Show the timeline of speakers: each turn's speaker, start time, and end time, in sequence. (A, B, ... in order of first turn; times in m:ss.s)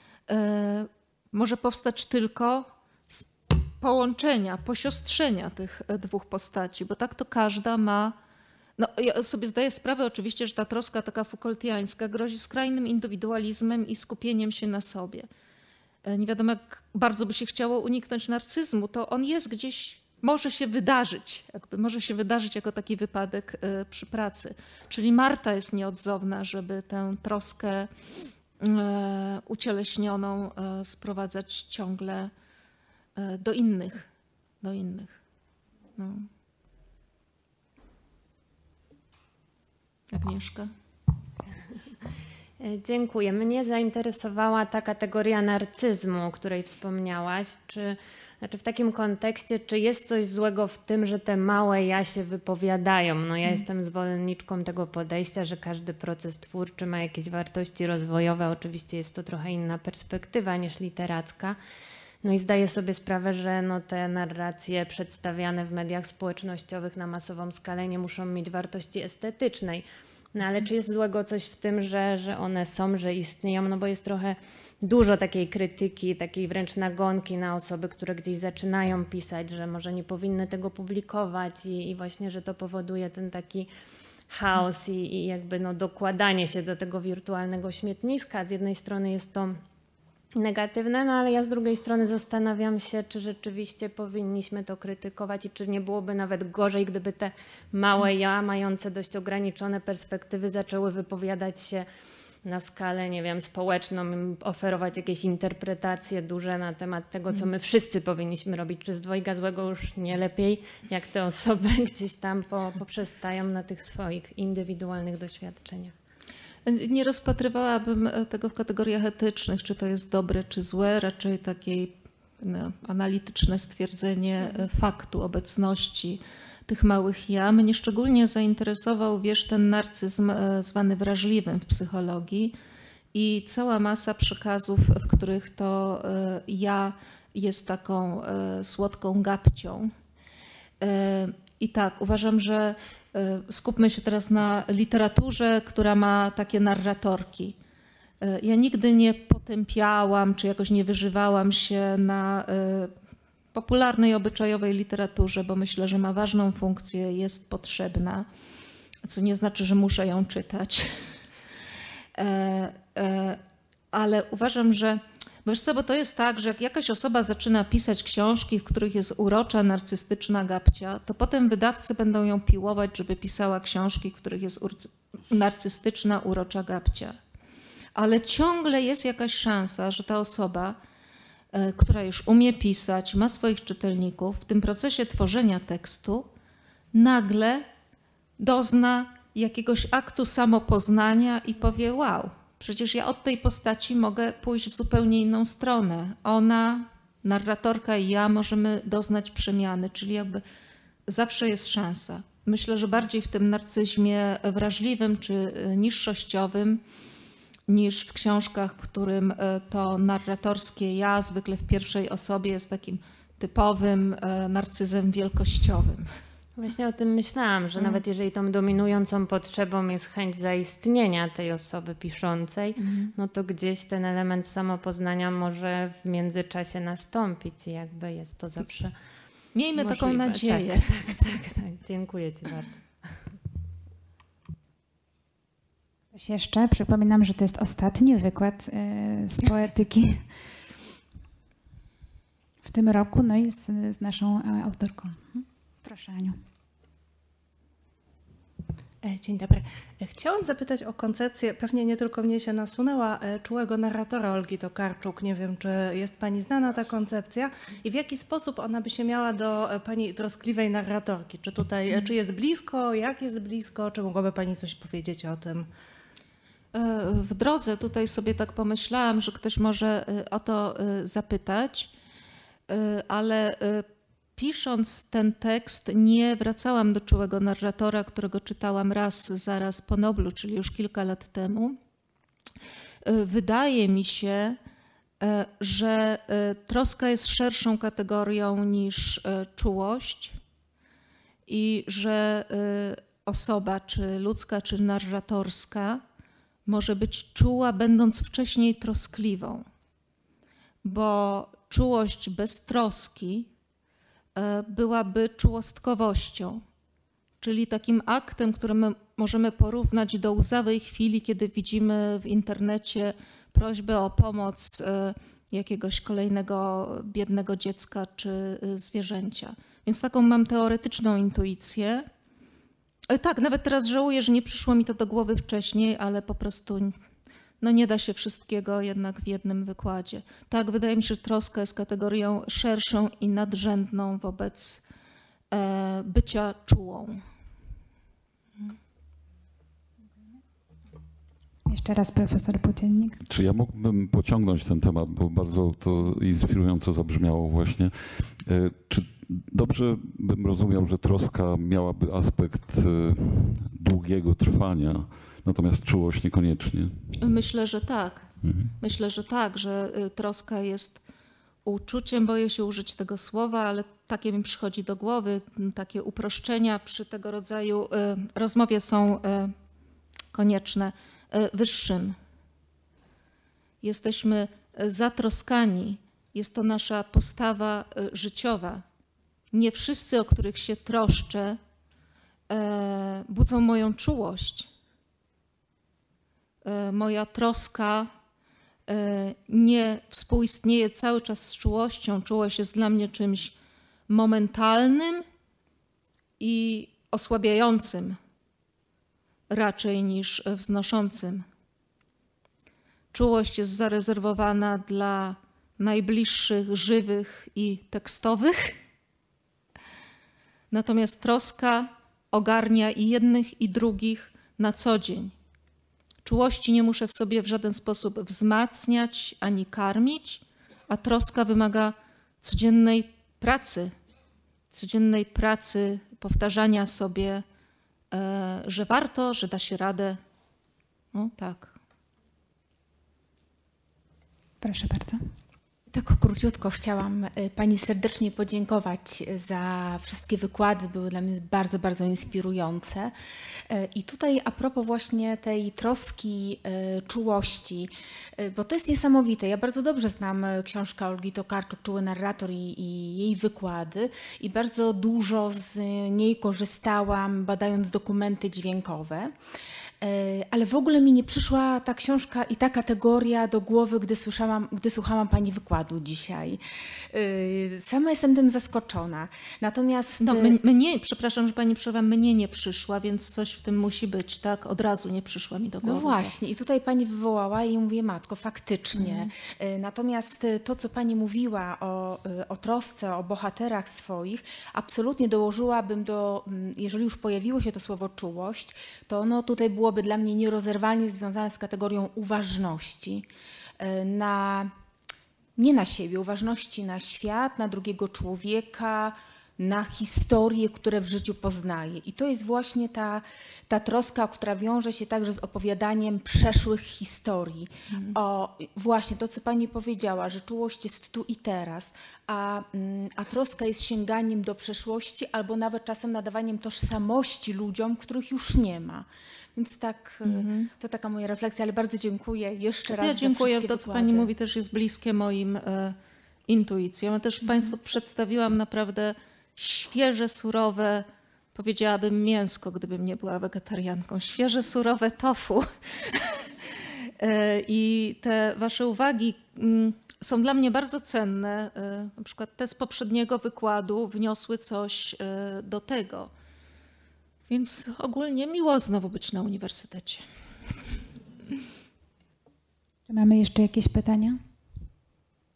0:00.3-0:08.2 A
0:08.8-0:15.3 A
0:16.0-0:27.9 A
0:28.6-0:32.3 A
0:33.2-0:34.1 A
0:34.6-0:35.2 A
0:36.0-0:36.3 A
0:40.1-0:40.7 A
0:42.6-1:01.6 B
1:02.2-1:23.7 B
1:24.3-1:29.6 B
1:30.3-1:41.9 B
1:42.4-1:55.9 B
1:56.6-2:12.6 A
2:13.1-2:19.9 A
2:20.8-2:27.6 A
2:28.2-2:32.9 A
2:33.5-2:38.3 A
2:39.0-2:41.0 A
2:42.2-2:43.4 A
2:43.9-2:57.2 A
2:57.9-3:00.8 A
3:01.5-3:06.3 A
3:06.9-3:07.6 A
3:08.4-3:20.4 A
3:21.1-3:26.8 A
3:27.7-3:36.1 A
3:36.6-3:49.0 B
3:42.8-3:43.1 A
3:49.5-3:51.1 A
3:49.8-3:53.3 B
3:56.1-4:00.3 C
4:02.6-4:06.4 C
4:09.0-4:25.7 D
4:26.7-4:31.9 A
4:32.7-4:41.8 A
4:43.0-4:44.6 A
4:45.2-4:50.4 A
4:51.5-4:56.0 A
4:56.6-4:59.6 A
5:00.8-5:03.5 A
5:04.3-5:06.6 A
5:07.4-5:22.1 A
5:23.1-5:27.0 A
5:27.6-5:34.8 A
5:35.5-5:37.2 A
5:41.6-5:43.2 C
5:43.2-5:56.9 E
5:57.2-5:58.3 A
5:58.4-5:58.7 E
5:58.8-6:01.0 A
6:01.6-6:09.5 A
6:10.3-6:12.2 A
6:13.8-6:18.8 A
6:19.5-6:21.6 A
6:22.5-6:24.7 A
6:26.6-6:28.1 A
6:28.9-6:33.5 A
6:34.1-6:35.2 A
6:36.4-6:38.2 A
6:39.5-6:41.4 A
6:43.1-6:48.8 A
6:50.7-6:55.3 A
6:56.2-7:03.9 A
7:04.7-7:07.4 A
7:08.1-7:10.2 A
7:11.1-7:11.8 A
7:14.6-7:15.2 C
7:15.9-7:23.1 F
7:23.7-7:39.4 F
7:40.0-7:50.6 F
7:50.2-7:56.3 A
7:55.8-8:13.3 F
7:58.9-7:59.3 A
8:13.8-8:14.7 F
8:15.6-8:44.3 F
8:27.9-8:28.2 A
8:40.2-8:40.7 A
8:42.9-8:46.0 A
8:46.5-9:06.3 A
9:07.5-9:10.2 A
9:13.1-9:14.4 C